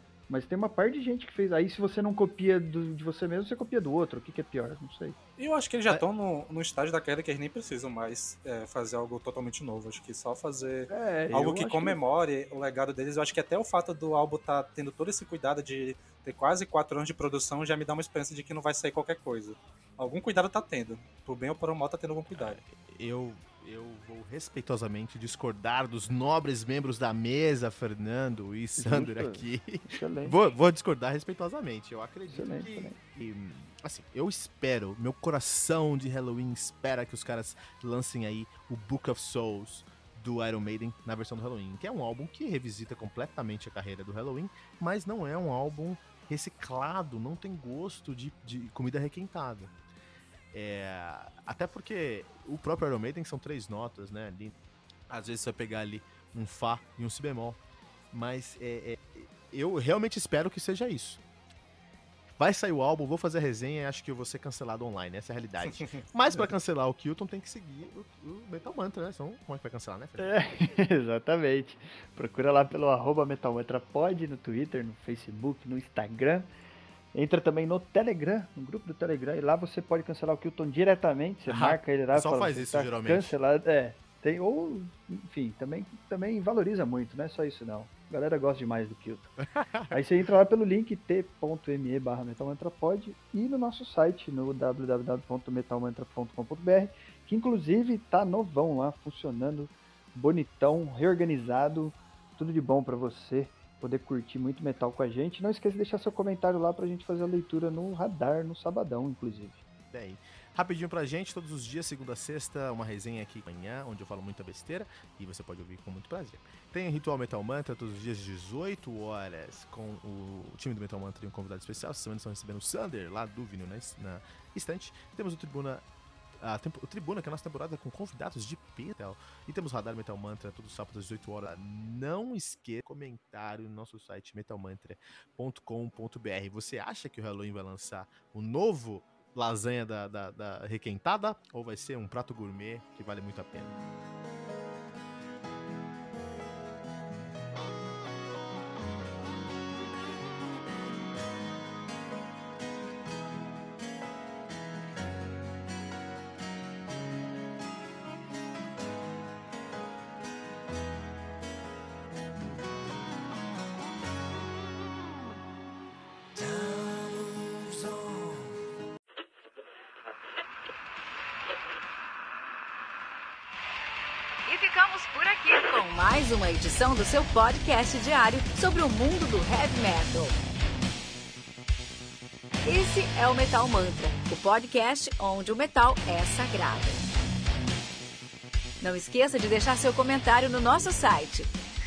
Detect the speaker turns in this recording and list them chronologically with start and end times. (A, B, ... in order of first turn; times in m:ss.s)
0:00.3-0:05.2 A
0:05.4-0:22.6 B
0:10.9-0:12.0 A
0:22.3-0:49.7 C
0:28.8-0:30.4 A
0:32.3-0:33.0 A
0:50.5-0:54.5 C
0:55.1-0:57.6 C
0:58.1-1:01.2 C
1:02.4-1:10.3 C
1:10.2-1:16.5 A
1:17.1-1:29.3 A
1:21.4-1:23.3 C
1:29.6-1:29.9 C
1:29.9-1:49.6 A
1:49.9-2:05.8 C
2:06.4-2:23.7 C
2:46.4-2:48.1 D
2:54.4-3:00.4 D
3:02.6-3:07.1 D
3:08.8-3:11.5 D